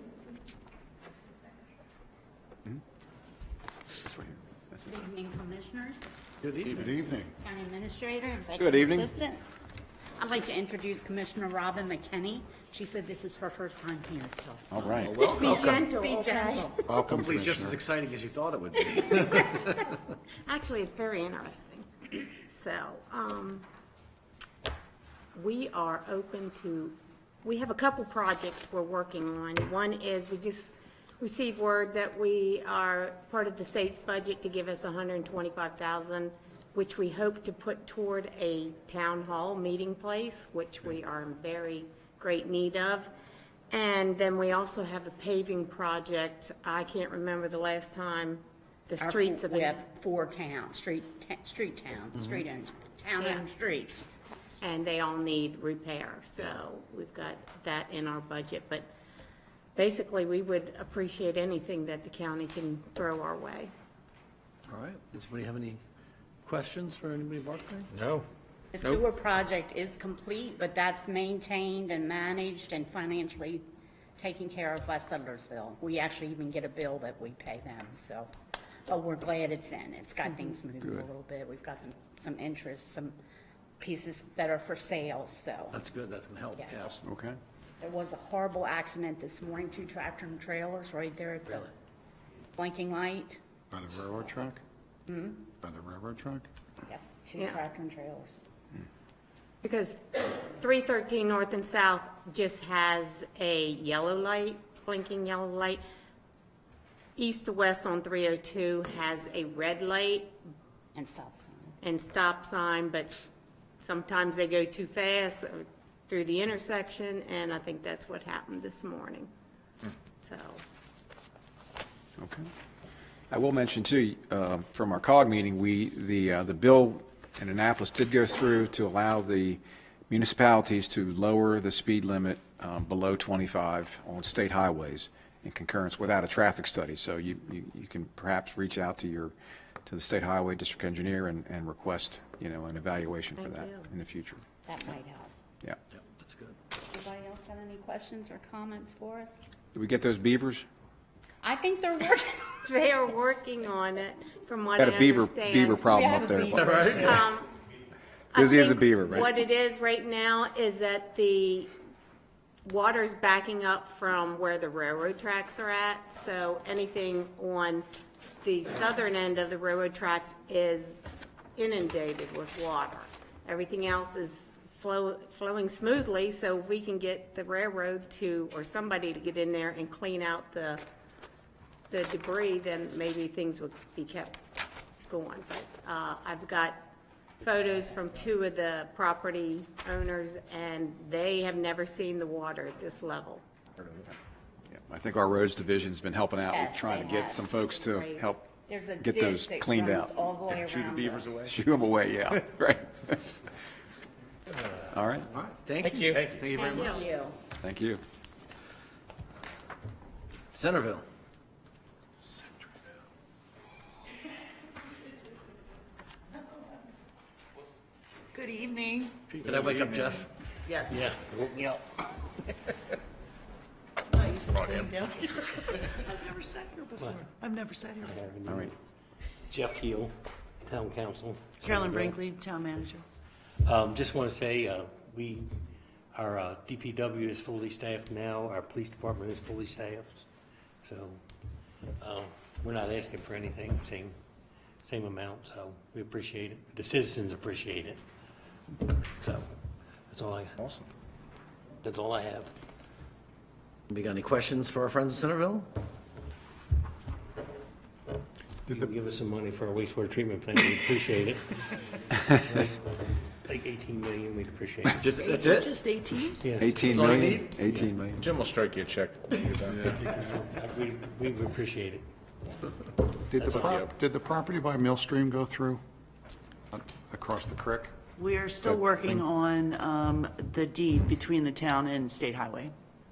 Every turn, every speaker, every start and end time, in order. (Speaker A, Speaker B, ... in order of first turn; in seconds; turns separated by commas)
Speaker A: 4.0-4.9, Speaker B: 4.9-6.1, Speaker C: 6.4-6.8, Speaker D: 6.7-7.3, Speaker B: 7.4-9.4, Speaker A: 8.6-9.1, Speaker B: 10.2-16.8, Speaker A: 14.7-15.2, Speaker E: 15.0-17.0, Speaker D: 15.3-15.8, Speaker D: 16.9-17.8, Speaker C: 17.1-19.7, Speaker E: 19.1-19.6, Speaker D: 19.1-19.6, Speaker E: 20.5-23.6, Speaker E: 25.3-43.1, Speaker E: 43.7-49.8, Speaker B: 49.0-54.0, Speaker E: 54.6-58.9, Speaker E: 59.8-63.7, Speaker C: 64.7-65.8, Speaker D: 65.2-65.6, Speaker D: 66.5-67.7, Speaker C: 66.6-67.8, Speaker F: 68.0-68.2, Speaker B: 68.7-73.6, Speaker B: 74.2-78.3, Speaker B: 78.9-83.1, Speaker B: 83.8-85.8, Speaker D: 85.8-86.6, Speaker C: 86.1-86.8, Speaker B: 86.6-86.9, Speaker A: 86.9-87.4, Speaker B: 87.8-91.7, Speaker B: 92.5-93.4, Speaker D: 93.7-94.6, Speaker B: 95.1-95.5, Speaker D: 95.6-96.5, Speaker B: 96.9-98.4, Speaker E: 99.6-105.8, Speaker E: 107.2-110.4, Speaker B: 111.0-111.8, Speaker E: 111.8-113.1, Speaker E: 113.8-119.3, Speaker E: 120.2-120.6, Speaker A: 122.2-122.5, Speaker A: 123.3-139.3, Speaker A: 139.9-144.4, Speaker E: 143.4-143.9, Speaker B: 144.7-145.3, Speaker C: 146.1-146.6, Speaker B: 146.9-149.5, Speaker A: 149.7-150.7, Speaker B: 151.4-152.7, Speaker E: 152.7-155.9, Speaker A: 154.8-157.1, Speaker B: 155.9-157.2, Speaker E: 156.8-157.5, Speaker E: 158.3-161.7, Speaker A: 158.3-159.3, Speaker E: 162.7-167.8, Speaker E: 168.4-171.1, Speaker E: 171.6-180.8, Speaker E: 181.9-184.4, Speaker E: 185.1-193.4, Speaker A: 193.8-194.1, Speaker A: 194.7-203.4, Speaker B: 196.5-201.4, Speaker A: 204.9-205.3, Speaker C: 205.3-206.9, Speaker F: 205.8-206.5, Speaker E: 206.5-207.1, Speaker B: 206.5-207.3, Speaker A: 207.6-208.0, Speaker C: 210.5-211.1, Speaker G: 216.4-216.6, Speaker G: 218.3-219.4, Speaker F: 219.4-220.0, Speaker D: 219.4-220.2, Speaker C: 219.5-220.1, Speaker H: 219.6-220.1, Speaker G: 220.7-221.0, Speaker F: 220.9-222.0, Speaker G: 224.1-228.1, Speaker H: 224.6-224.9, Speaker F: 227.0-227.3, Speaker F: 228.0-228.8, Speaker A: 228.5-228.7, Speaker F: 229.5-232.2, Speaker G: 231.6-233.0, Speaker F: 233.6-235.5, Speaker F: 236.1-240.3, Speaker F: 240.8-241.2, Speaker F: 242.0-244.2, Speaker F: 244.8-248.0, Speaker F: 249.2-249.5, Speaker F: 250.1-250.6, Speaker F: 251.8-252.5, Speaker C: 253.9-255.7, Speaker D: 255.1-255.4, Speaker F: 258.7-261.6, Speaker F: 262.2-262.8, Speaker F: 263.4-265.0, Speaker G: 265.1-266.4, Speaker D: 265.2-265.6, Speaker F: 266.4-267.9, Speaker A: 266.6-268.2, Speaker C: 266.9-267.5, Speaker H: 268.2-270.1, Speaker F: 269.8-272.0, Speaker D: 273.2-275.8, Speaker H: 273.4-273.9, Speaker D: 276.7-278.0, Speaker G: 278.2-282.7, Speaker D: 278.6-279.2